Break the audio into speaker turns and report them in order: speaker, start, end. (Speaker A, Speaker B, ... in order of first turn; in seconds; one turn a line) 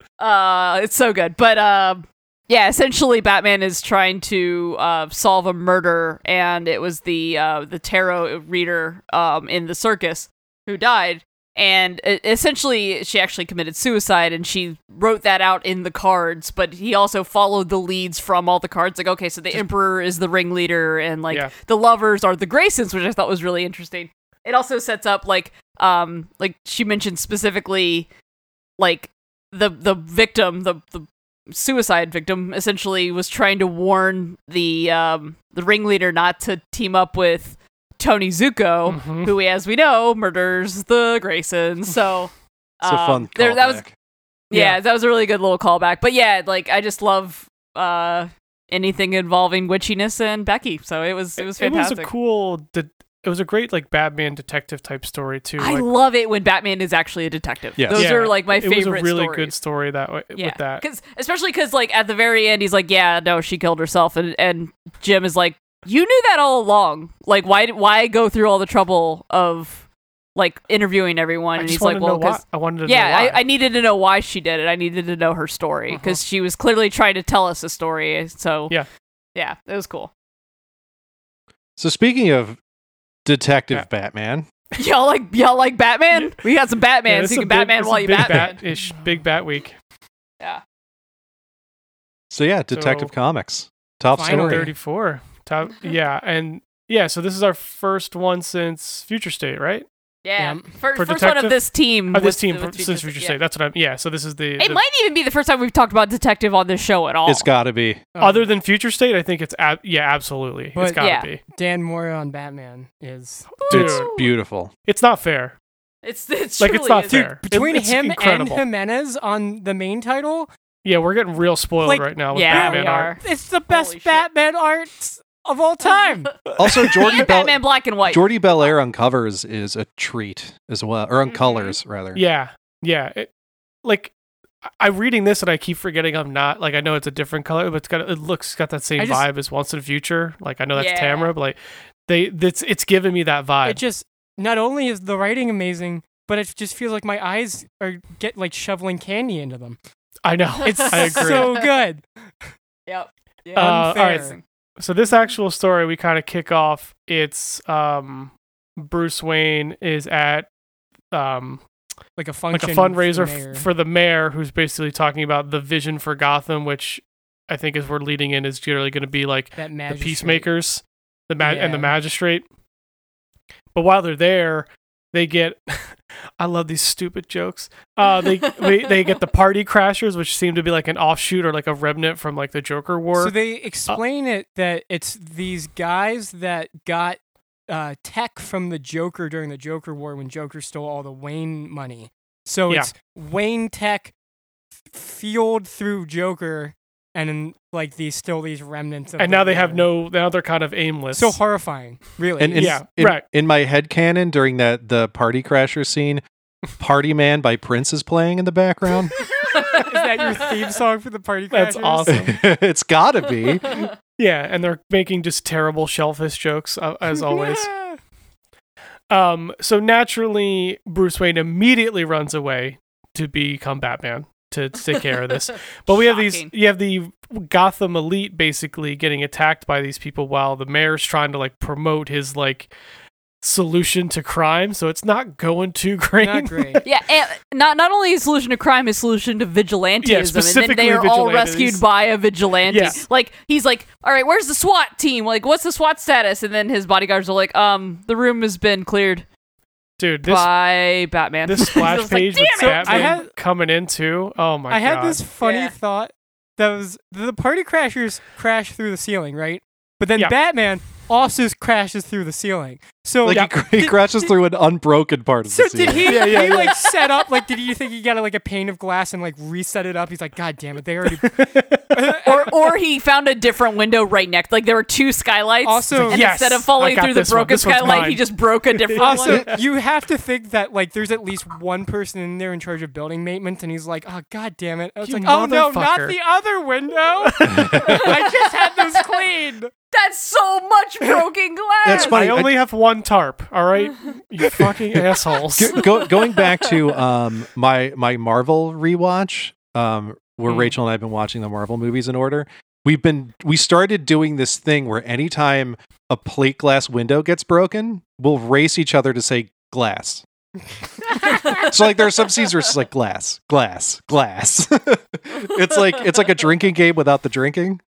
Speaker A: 0.2-28.1
Speaker A: 28.8-43.8
Speaker B: 38.9-39.3
Speaker C: 42.8-43.9
Speaker A: 44.5-52.1
Speaker B: 44.5-44.8
Speaker B: 51.4-55.9
Speaker A: 55.6-59.5
Speaker C: 57.8-58.1
Speaker B: 57.9-60.8
Speaker A: 60.3-69.8
Speaker A: 70.3-78.7
Speaker B: 71.5-73.4
Speaker B: 75.9-76.2
Speaker A: 79.3-80.1
Speaker C: 81.8-82.6
Speaker C: 83.2-84.5
Speaker A: 84.8-88.6
Speaker B: 87.0-89.8
Speaker C: 92.3-94.7
Speaker B: 92.7-93.1
Speaker D: 94.1-94.7
Speaker B: 94.2-99.8
Speaker A: 100.2-103.4
Speaker D: 100.4-100.6
Speaker B: 101.0-101.6
Speaker B: 102.1-104.8
Speaker A: 104.6-107.5
Speaker C: 107.3-108.0
Speaker D: 108.1-108.5
Speaker B: 108.2-111.4
Speaker D: 110.8-113.6
Speaker A: 111.0-111.3
Speaker B: 113.6-114.1
Speaker A: 113.6-114.3
Speaker C: 113.7-114.7
Speaker B: 114.8-115.5
Speaker A: 116.0-117.3
Speaker B: 116.6-118.6
Speaker D: 117.0-120.5
Speaker B: 120.8-123.1
Speaker D: 121.8-126.4
Speaker A: 122.3-124.2
Speaker B: 126.5-127.0
Speaker C: 126.5-132.2
Speaker A: 127.0-128.7
Speaker A: 131.2-131.8
Speaker B: 132.1-133.3
Speaker B: 133.8-134.1
Speaker B: 134.8-143.8
Speaker D: 139.0-139.2
Speaker A: 140.7-141.3
Speaker D: 143.6-149.8
Speaker B: 150.2-151.6
Speaker A: 150.6-151.6
Speaker D: 150.6-152.0
Speaker A: 152.9-154.4
Speaker D: 153.5-154.4
Speaker B: 153.6-160.5
Speaker B: 161.1-161.6
Speaker D: 162.2-163.7
Speaker B: 162.5-172.4
Speaker D: 169.6-170.5
Speaker D: 171.4-171.9
Speaker B: 173.7-183.3
Speaker D: 183.2-194.1
Speaker D: 194.9-199.8
Speaker B: 199.2-201.4
Speaker D: 201.1-202.8
Speaker C: 202.4-206.2
Speaker B: 202.5-203.2
Speaker C: 206.8-209.2
Speaker A: 209.3-209.8
Speaker D: 209.5-212.3
Speaker B: 211.5-212.3
Speaker C: 212.1-213.8
Speaker B: 214.1-217.7
Speaker D: 217.2-218.0
Speaker B: 219.1-232.7
Speaker A: 225.9-226.5
Speaker B: 233.4-236.8
Speaker D: 236.2-236.8
Speaker A: 236.8-249.2
Speaker B: 240.0-241.8
Speaker B: 242.7-243.0
Speaker B: 250.0-250.5
Speaker A: 250.2-253.2
Speaker B: 251.4-255.2
Speaker D: 252.6-253.3
Speaker D: 254.7-264.3
Speaker A: 255.4-255.7
Speaker C: 263.2-266.3
Speaker D: 265.5-271.4
Speaker B: 266.0-266.8
Speaker A: 266.1-267.2
Speaker B: 271.1-272.0
Speaker D: 271.9-272.7
Speaker A: 272.2-279.4
Speaker D: 275.6-276.3
Speaker B: 276.0-279.6
Speaker D: 279.0-289.7
Speaker B: 285.0-286.2
Speaker B: 287.2-287.9
Speaker C: 287.5-288.0
Speaker A: 287.9-289.2
Speaker A: 289.9-292.2
Speaker C: 291.8-292.5
Speaker B: 291.9-295.9
Speaker C: 295.5-310.2
Speaker A: 296.2-296.7
Speaker B: 300.5-300.7
Speaker A: 311.0-312.1
Speaker C: 311.1-317.8
Speaker A: 315.6-316.3